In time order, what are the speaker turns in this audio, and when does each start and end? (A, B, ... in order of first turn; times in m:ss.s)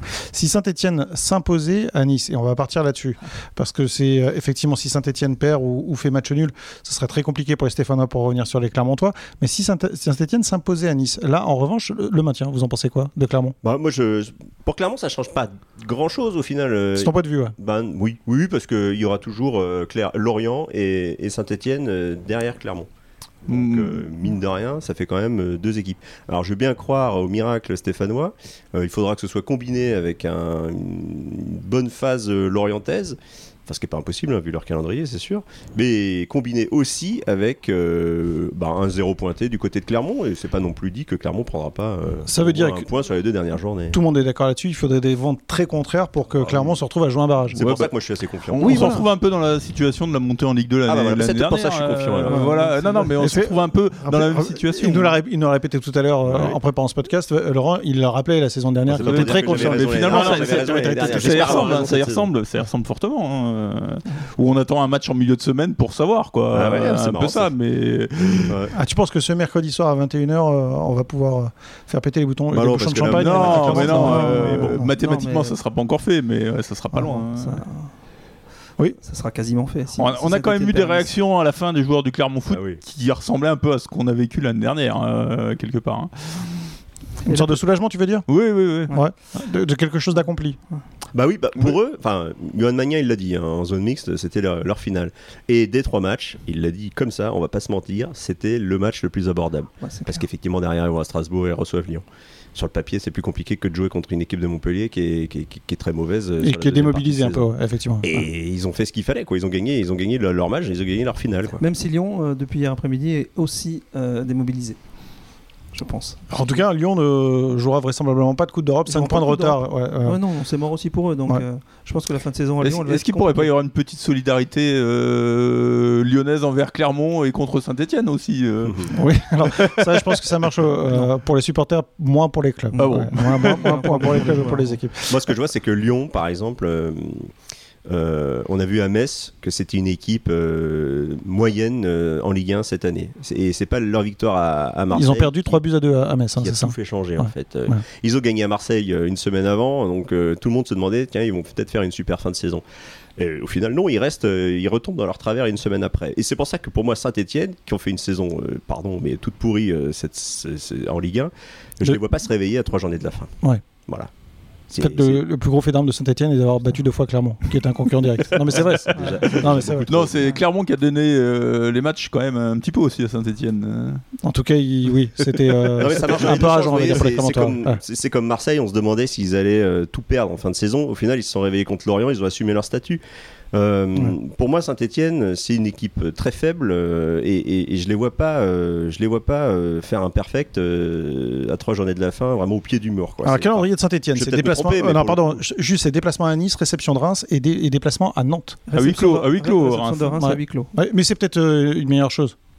0:00.3-0:13.6 A
0:13.6-0:22.9 B
0:17.0-0:17.6 A
0:23.5-0:24.1 C
0:23.5-0:44.0 B
0:42.3-0:42.9 A
0:43.9-0:47.7 A
0:46.4-0:46.8 B
0:47.5-0:48.8 B
0:47.6-0:47.9 C
0:48.4-0:55.2 C
0:48.6-0:49.0 D
0:48.6-0:49.0 A
0:50.9-0:52.5 B
0:52.3-0:53.2 D
0:53.0-1:01.8 A
0:56.3-0:56.6 B
0:58.9-1:02.3 B
0:59.0-1:08.6 C
1:06.5-1:07.5 B
1:08.5-1:08.7 B
1:08.7-1:14.9 A
1:12.5-1:14.7 B
1:13.0-1:17.6 C
1:13.8-1:15.6 D
1:16.9-1:17.9 D
1:19.0-1:21.1 D
1:20.0-1:26.7 C
1:22.5-1:22.8 B
1:27.2-1:27.6 D
1:27.2-1:28.3 A
1:28.3-1:28.9 C
1:28.9-1:30.6 A
1:31.1-1:42.0 B
1:39.8-1:40.2 D
1:42.6-1:47.5 B
1:46.4-1:48.1 A
1:48.0-1:51.6 B
1:51.6-1:54.8 D
1:55.7-1:56.2 D
1:56.3-2:00.2 A
1:58.9-2:03.5 D
2:02.6-2:08.9 C
2:08.6-2:08.9 B
2:08.9-2:15.2 A
2:09.5-2:10.1 C
2:12.7-2:14.8 D
2:12.8-2:14.3 C
2:15.1-2:17.3 B
2:17.9-2:25.6 B
2:24.9-2:27.8 A
2:26.4-2:32.6 B
2:33.2-2:43.3 B
2:43.8-2:44.1 B
2:44.7-2:45.2 B
2:44.8-2:50.0 A
2:48.5-2:50.3 B
2:49.0-2:49.2 D
2:49.4-2:54.0 C
2:54.2-2:57.8 A
2:55.8-3:03.0 B
3:03.5-3:15.4 B
3:13.2-3:18.6 A
3:18.7-3:20.7 D
3:18.7-3:20.2 C
3:20.2-3:22.4 A